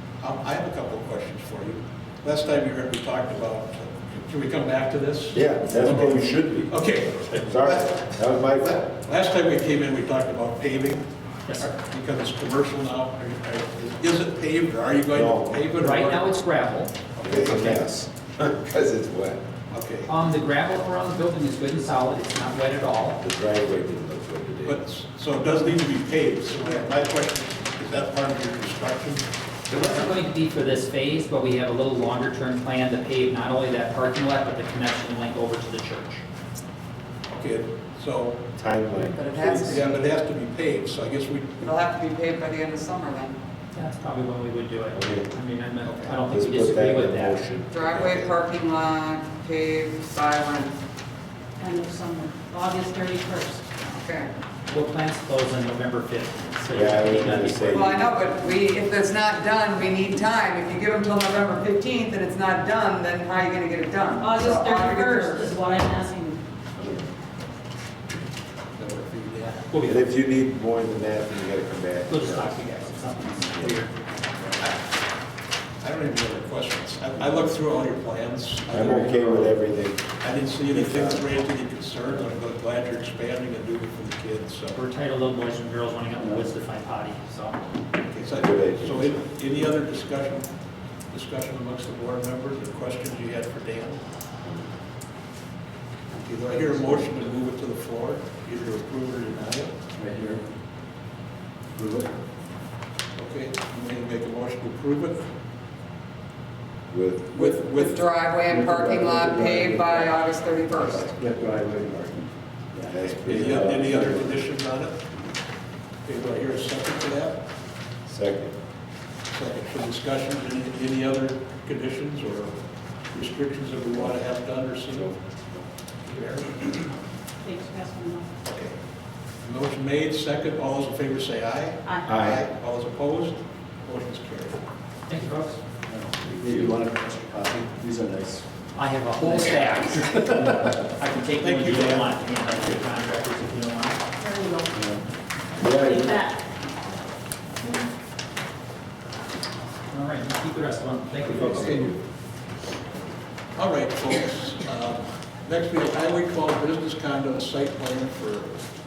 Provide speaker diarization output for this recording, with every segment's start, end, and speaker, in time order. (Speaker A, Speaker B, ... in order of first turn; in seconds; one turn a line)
Speaker A: 0.2-8.1
Speaker B: 5.3-6.7
Speaker B: 7.3-8.9
Speaker A: 8.6-16.3
Speaker C: 11.5-11.8
Speaker B: 15.1-15.6
Speaker C: 15.8-17.8
Speaker A: 17.2-17.7
Speaker B: 17.2-19.4
Speaker A: 19.7-20.1
Speaker C: 20.1-23.2
Speaker B: 23.2-24.8
Speaker A: 24.7-29.2
Speaker C: 29.7-36.2
Speaker A: 37.3-38.4
Speaker B: 38.6-39.8
Speaker D: 39.1-40.1
Speaker A: 39.6-41.6
Speaker D: 41.6-43.4
Speaker C: 43.7-47.5
Speaker B: 44.9-45.3
Speaker A: 45.9-46.1
Speaker B: 46.1-48.3
Speaker D: 47.7-50.7
Speaker E: 51.6-53.6
Speaker D: 53.9-54.3
Speaker C: 54.7-58.1
Speaker B: 56.7-58.1
Speaker D: 57.7-65.6
Speaker E: 64.2-66.4
Speaker A: 68.8-69.7
Speaker C: 69.7-70.0
Speaker B: 69.9-72.8
Speaker C: 72.1-73.9
Speaker B: 73.4-73.8
Speaker A: 75.8-79.6
Speaker B: 78.7-80.1
Speaker A: 80.2-84.8
Speaker B: 80.7-81.3
Speaker C: 84.7-87.6
Speaker A: 88.1-90.5
Speaker B: 88.3-89.3
Speaker A: 91.1-94.0
Speaker B: 94.4-94.7
Speaker A: 96.1-99.7
Speaker F: 100.0-100.4
Speaker F: 101.7-102.1
Speaker A: 103.2-105.3
Speaker B: 106.9-107.4
Speaker A: 107.3-108.1
Speaker D: 107.4-111.1
Speaker F: 108.5-113.6
Speaker B: 112.8-114.4
Speaker A: 113.2-115.0
Speaker A: 116.0-117.4
Speaker B: 118.1-118.5
Speaker A: 119.3-122.5
Speaker A: 123.1-125.1
Speaker B: 124.9-125.6
Speaker A: 126.1-126.9
Speaker E: 127.4-128.3
Speaker A: 128.5-128.8
Speaker A: 129.4-134.6
Speaker E: 131.8-132.1
Speaker B: 132.1-132.4
Speaker C: 135.1-135.6
Speaker F: 135.9-138.5
Speaker B: 136.2-136.8
Speaker C: 138.8-144.0
Speaker F: 140.0-140.9
Speaker A: 141.4-142.1
Speaker E: 144.2-144.8
Speaker F: 144.7-145.1
Speaker B: 145.6-146.2
Speaker E: 145.6-146.4
Speaker C: 149.9-151.9
Speaker B: 151.2-152.0
Speaker A: 153.6-158.6